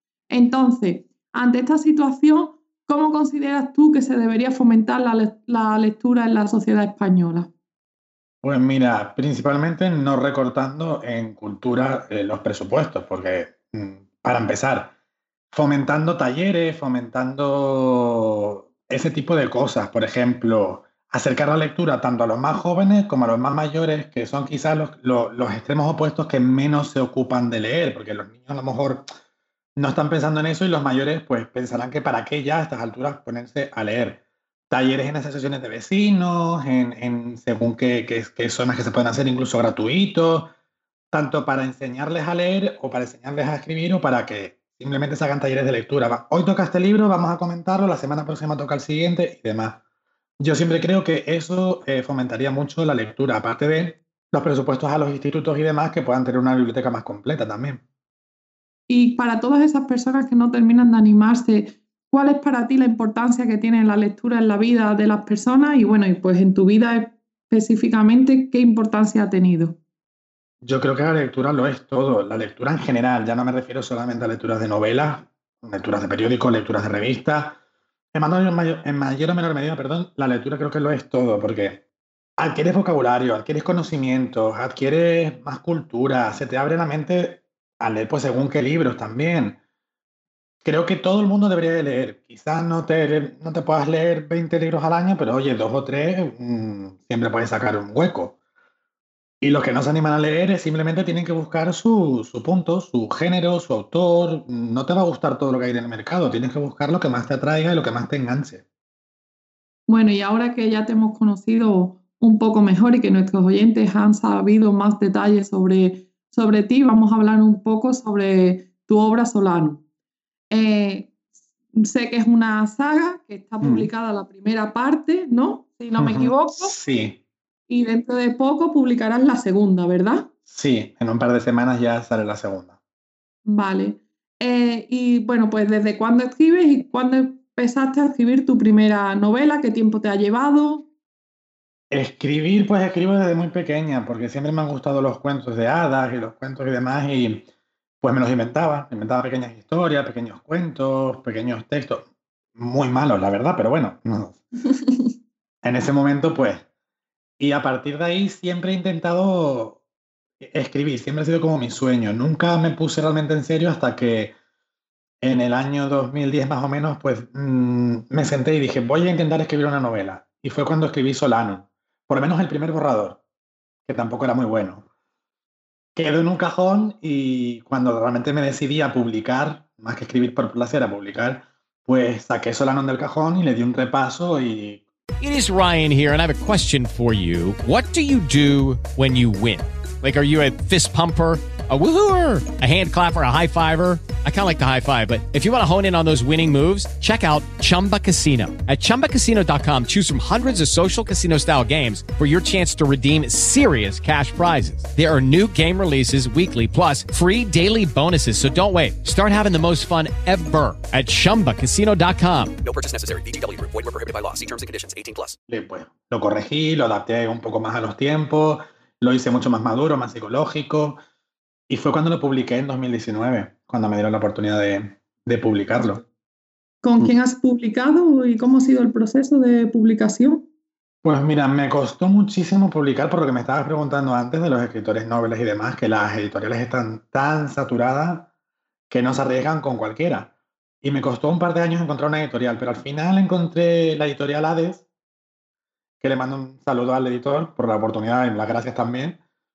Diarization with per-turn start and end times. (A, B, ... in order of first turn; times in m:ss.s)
0:00.3-0:07.5 A
0:08.4-0:14.9 B
0:15.5-0:29.1 B
0:29.8-0:40.5 B
0:41.1-0:49.8 B
0:50.4-0:57.8 B
0:58.9-1:09.8 A
1:10.6-1:17.6 B
1:18.1-1:21.8 B
1:22.4-1:29.6 B
1:30.6-1:38.4 B
1:39.4-1:48.6 B
1:49.9-1:59.8 A
2:00.5-2:01.1 A
2:01.7-2:06.8 A
2:03.6-2:03.9 B
2:06.0-2:07.2 B
2:07.7-2:10.3 A
2:10.5-2:12.7 B
2:13.5-2:20.9 A
2:21.9-2:27.5 B
2:28.0-2:32.0 B
2:32.6-2:34.4 B
2:35.6-2:36.7 B
2:37.4-2:39.8 B
2:40.4-2:44.3 B
2:45.2-2:53.2 B
2:53.9-2:54.9 B
2:56.0-3:04.8 B
3:05.2-3:32.6 C
3:32.6-3:35.4 D
3:35.5-3:41.0 B
3:41.7-3:46.0 B
3:46.8-3:50.4 A
3:51.0-3:58.3 B
3:58.9-4:04.8 B
4:06.0-4:09.2 B